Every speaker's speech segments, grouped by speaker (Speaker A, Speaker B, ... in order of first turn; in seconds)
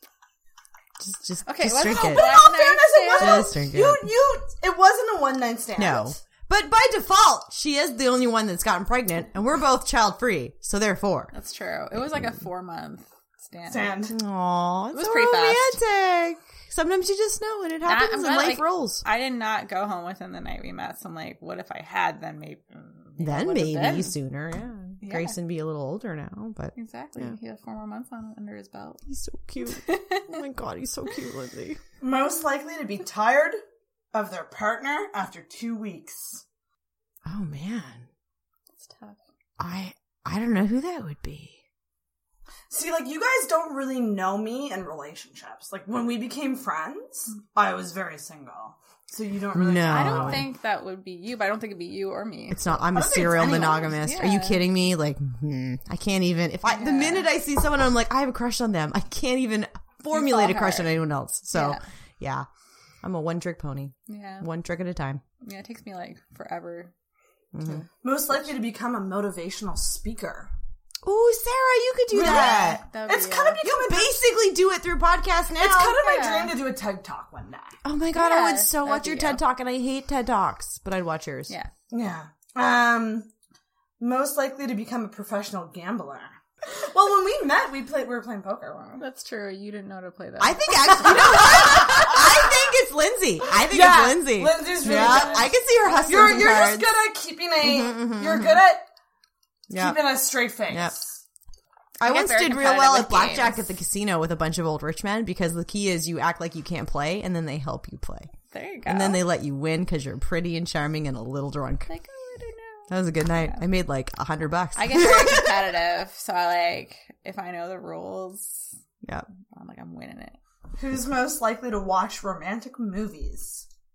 Speaker A: 1.0-2.4, 3.2-4.0, 5.8-11.3, 14.1-19.0, 23.2-27.3, 29.1-31.8, 37.2-38.1, 39.6-41.6, 49.5-50.5, 52.5-62.5, 63.0-65.2, 67.5-67.8, 71.0-72.8, 73.6-76.0, 77.8-81.5, 90.4-97.0, 97.6-98.6, 99.7-100.1, 100.7-100.9, 102.0-108.3, 108.8-111.9, 112.9-115.5
Speaker B: 1.4-3.4, 11.3-13.9, 14.9-15.8, 17.8-24.1, 25.0-25.4, 26.7-29.0, 29.8-30.4, 38.8-39.2, 49.9-54.6, 56.7-57.3, 60.1-61.0, 61.5-61.8, 64.1-64.5, 65.4-66.9, 72.2-73.6, 76.0-76.5, 78.1-79.4, 89.0-91.4, 94.8-96.4, 102.0-103.6, 108.5-109.2, 111.9-113.7, 114.8-118.7, 119.5-120.4
Speaker C: 1.9-6.2, 13.7-14.1, 32.0-33.6, 34.1-36.4, 42.7-50.4, 52.9-53.9, 68.0-70.5, 72.1-74.2, 75.6-77.8, 81.9-83.3, 84.0-89.0, 90.9-92.6, 93.7-95.5, 96.0-98.8, 99.7-101.2, 120.8-123.6